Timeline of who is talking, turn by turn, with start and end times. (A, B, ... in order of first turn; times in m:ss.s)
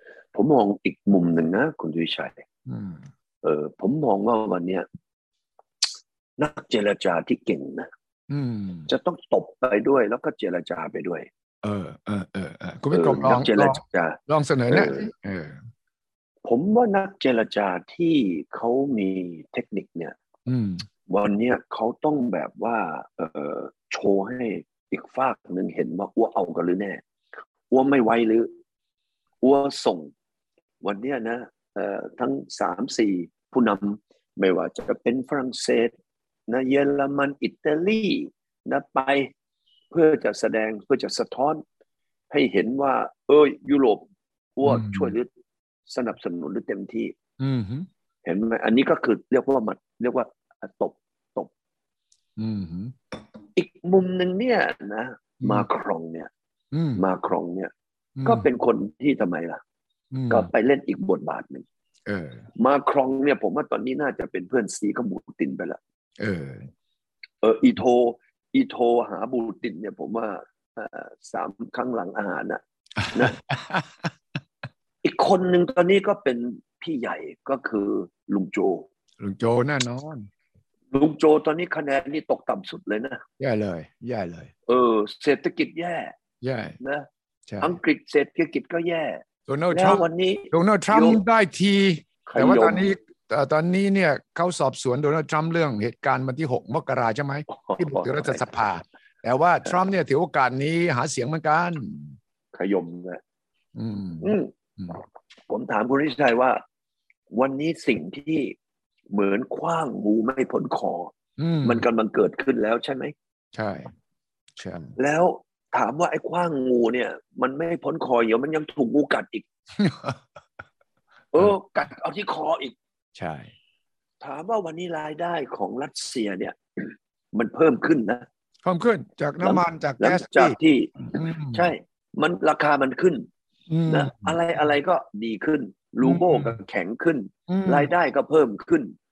0:00.3-0:02.4 A
0:02.6-0:03.1 B
0:03.4-0:04.8 A
0:06.4-0:07.9 A
0:08.3-0:08.9 B
0:08.9-0:11.3 A
0:11.6-0:15.6 B
0:12.9-0:15.1 A
0:16.4-0:20.2 A
0:20.4-0:20.9 B
0:21.1-0:27.0 A
0:27.7-0:28.5 A
0:29.4-0:30.1 A
0:30.8-0:35.9 A
0:36.5-0:39.3 A
0:39.9-0:41.6 A
0:42.3-0:44.0 A
0:44.6-0:45.3 A
0:44.6-0:45.1 B
0:45.9-0:47.1 A
0:47.4-0:47.9 B
0:48.2-0:51.5 A
0:52.4-0:52.9 B
0:53.6-0:56.3 A
0:55.4-0:55.7 B
0:56.7-0:57.0 B
0:57.0-0:57.7 A
0:58.2-0:58.5 B
0:58.2-0:59.6 A
1:00.1-1:00.5 B
1:00.3-1:01.6 A
1:02.1-1:02.5 B
1:02.6-1:05.8 A
1:06.2-1:06.7 B
1:07.4-1:13.4 A
1:13.0-1:14.1 B
1:15.0-1:18.9 A
1:19.2-1:20.3 B
1:20.9-1:23.2 A
1:23.4-1:24.5 B
1:24.7-1:26.1 A
1:26.4-1:26.8 B
1:26.8-1:27.1 A
1:27.5-1:27.8 B
1:27.6-1:29.2 A
1:29.5-1:42.2 B
1:29.7-1:31.2 A
1:32.2-1:32.8 A
1:37.5-1:38.4 A
1:42.5-1:43.2 A
1:43.8-1:45.0 B
1:44.2-1:44.5 A
1:45.5-1:46.6 A
1:47.3-1:48.5 A
1:49.1-1:51.1 A
1:51.4-1:51.8 B
1:51.6-1:53.1 A
1:53.5-1:53.9 B
1:54.6-1:55.0 B
1:55.0-1:59.4 A
1:59.8-2:00.2 B
2:01.3-2:02.7 A
2:03.2-2:03.5 B
2:04.2-2:08.2 A
2:08.6-2:11.7 B
2:09.4-2:13.3 A
2:13.7-2:14.4 B
2:13.9-2:18.9 A
2:16.0-2:16.6 B
2:17.5-2:17.9 B